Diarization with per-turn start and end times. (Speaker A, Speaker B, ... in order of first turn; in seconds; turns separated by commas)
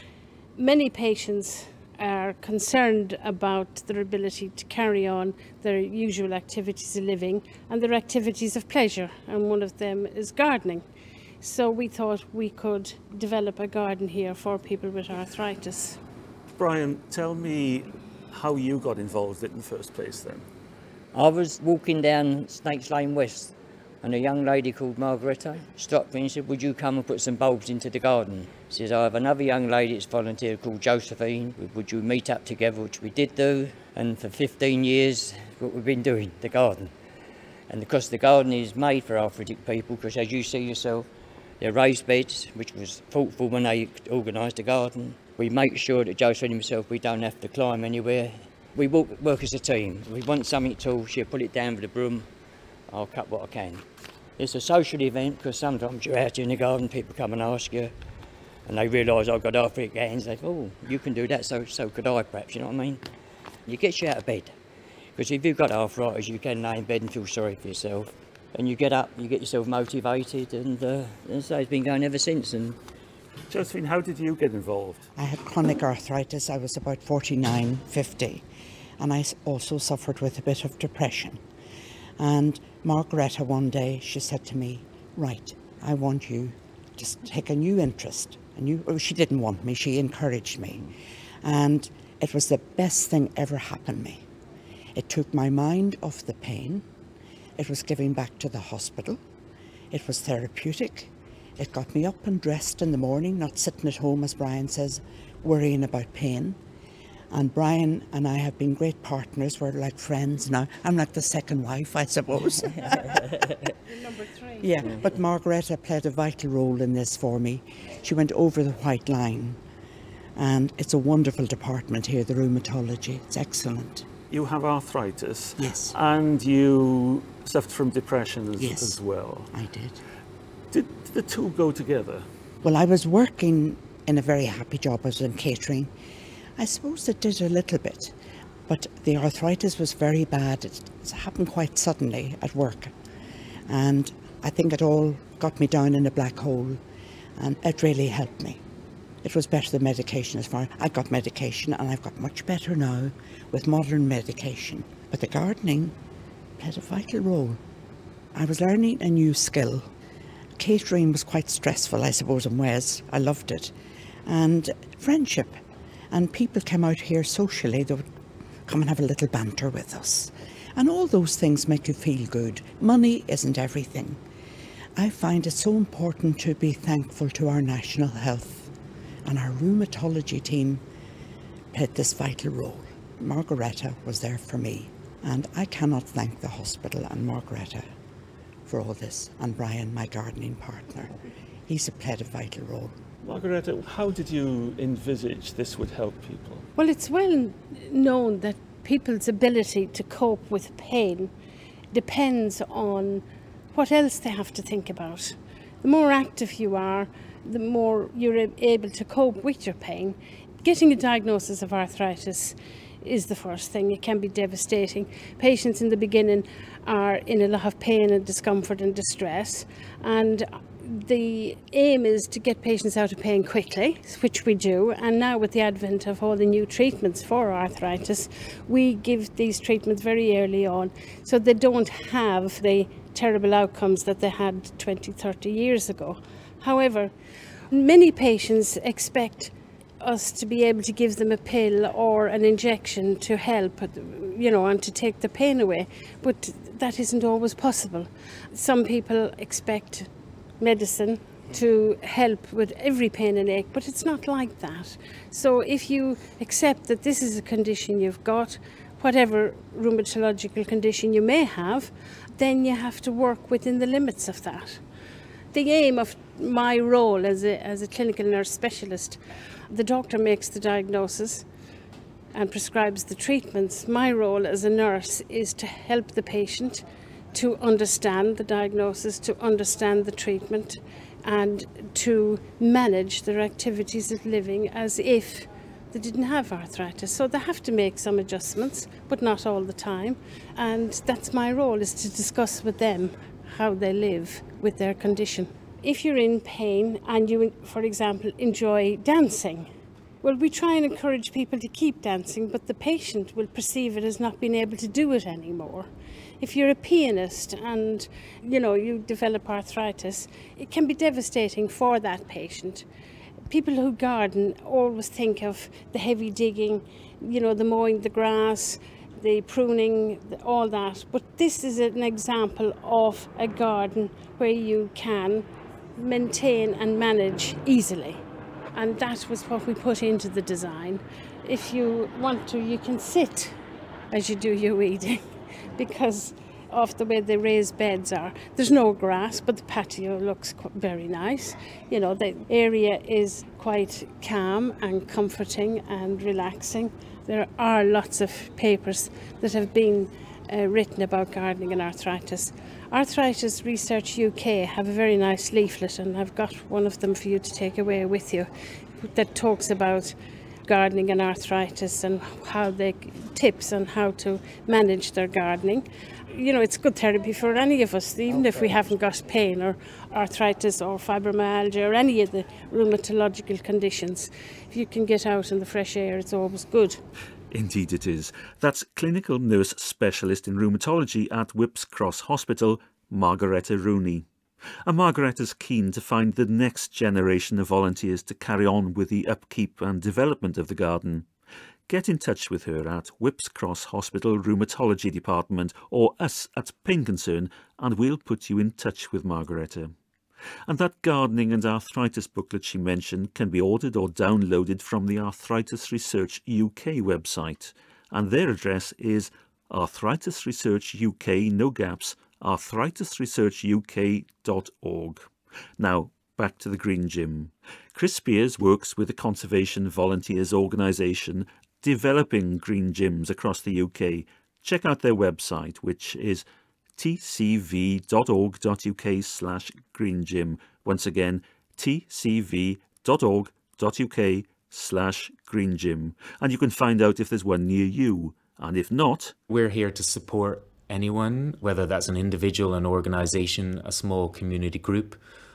Speaker A: 0.6-10.8, Speaker A: 11.4-16.0, Speaker B: 16.6-20.4, Speaker C: 21.1-36.9, Speaker C: 37.7-41.1, Speaker C: 41.6-52.3, Speaker C: 52.9-53.9, Speaker C: 54.4-58.0, Speaker C: 58.6-63.0, Speaker C: 63.6-64.6, Speaker C: 65.2-72.8, Speaker B: 73.5-75.0, Speaker D: 75.2-78.4, Speaker D: 79.0-81.4, Speaker D: 82.2-94.2, Speaker D: 94.9-96.9, Speaker D: 97.6-99.2, Speaker D: 99.9-106.6, Speaker D: 107.3-113.3, Speaker A: 113.9-115.1, Speaker D: 114.6-119.6, Speaker D: 120.4-124.1, Speaker B: 124.3-129.5, Speaker D: 125.6-126.0, Speaker D: 128.6-129.0, Speaker D: 129.5-130.0, Speaker B: 130.7-132.3, Speaker D: 132.6-135.9, Speaker D: 136.6-138.1, Speaker D: 138.7-142.9, Speaker D: 143.7-146.8, Speaker D: 147.4-148.6, Speaker D: 149.2-155.9, Speaker D: 156.6-157.6, Speaker D: 158.3-159.9, Speaker D: 160.6-163.7, Speaker D: 164.2-168.1, Speaker D: 168.7-174.2, Speaker D: 174.9-178.7, Speaker D: 179.2-180.8, Speaker D: 181.7-187.9, Speaker D: 188.7-191.2, Speaker D: 191.7-192.9, Speaker B: 193.2-196.6, Speaker A: 196.8-201.3, Speaker A: 201.9-237.1, Speaker A: 237.7-264.8, Speaker A: 265.5-271.5, Speaker A: 272.3-299.7, Speaker A: 300.2-305.9, Speaker A: 306.4-312.9, Speaker A: 313.5-333.6, Speaker A: 334.1-335.2, Speaker A: 335.8-358.5, Speaker A: 359.0-360.1, Speaker A: 360.7-377.0, Speaker C: 368.4-368.9, Speaker B: 377.5-384.2, Speaker B: 384.9-391.2, Speaker B: 391.9-399.9, Speaker B: 400.7-426.4, Speaker B: 427.0-439.4, Speaker E: 439.5-445.2